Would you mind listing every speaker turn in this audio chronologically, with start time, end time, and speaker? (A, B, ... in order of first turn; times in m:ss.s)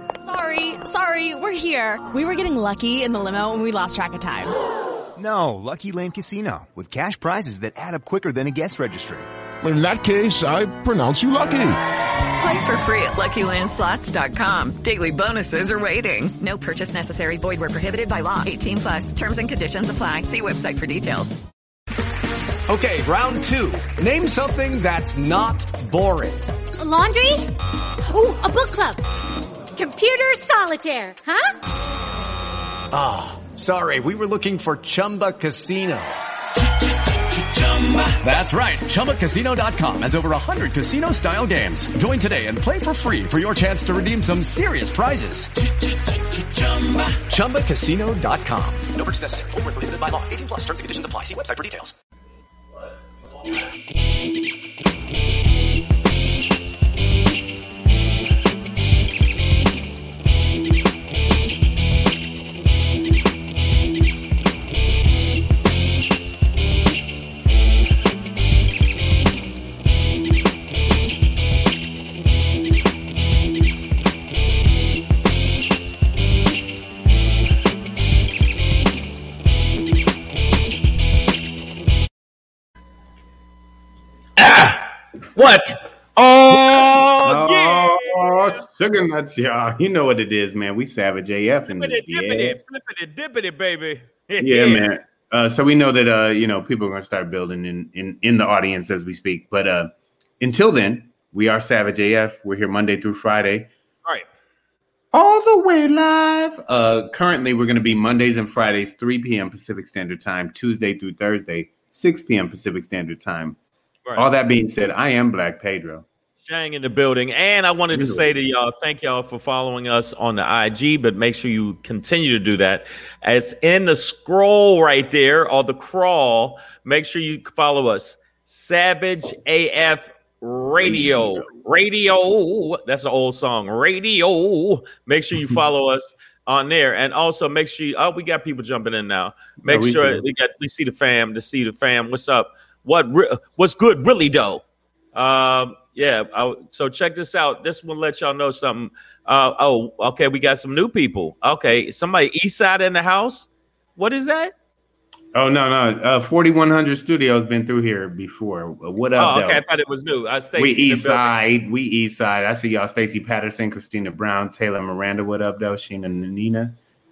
0:00.2-0:04.5 A
0:05.2-0:09.3 B
0:09.6-0:11.8 C
0:12.4-0:21.4 D
0:22.7-0:26.4 E
0:26.8-0:27.5 F
0:28.1-0:29.0 F
0:29.8-0:31.5 F
0:32.9-0:36.1 E
0:37.7-0:45.5 E
0:46.3-0:51.9 E
1:24.4-1:28.6 G
1:27.2-1:32.6 H
1:31.7-1:34.9 G
1:34.4-1:43.7 H
1:45.1-1:53.6 H
1:54.2-1:56.1 H
1:56.5-2:34.5 G
1:57.9-1:58.3 H
2:10.8-2:11.6 H
2:19.6-2:20.2 H
2:35.3-2:39.6 H
2:39.2-2:41.3 G
2:40.6-2:46.8 H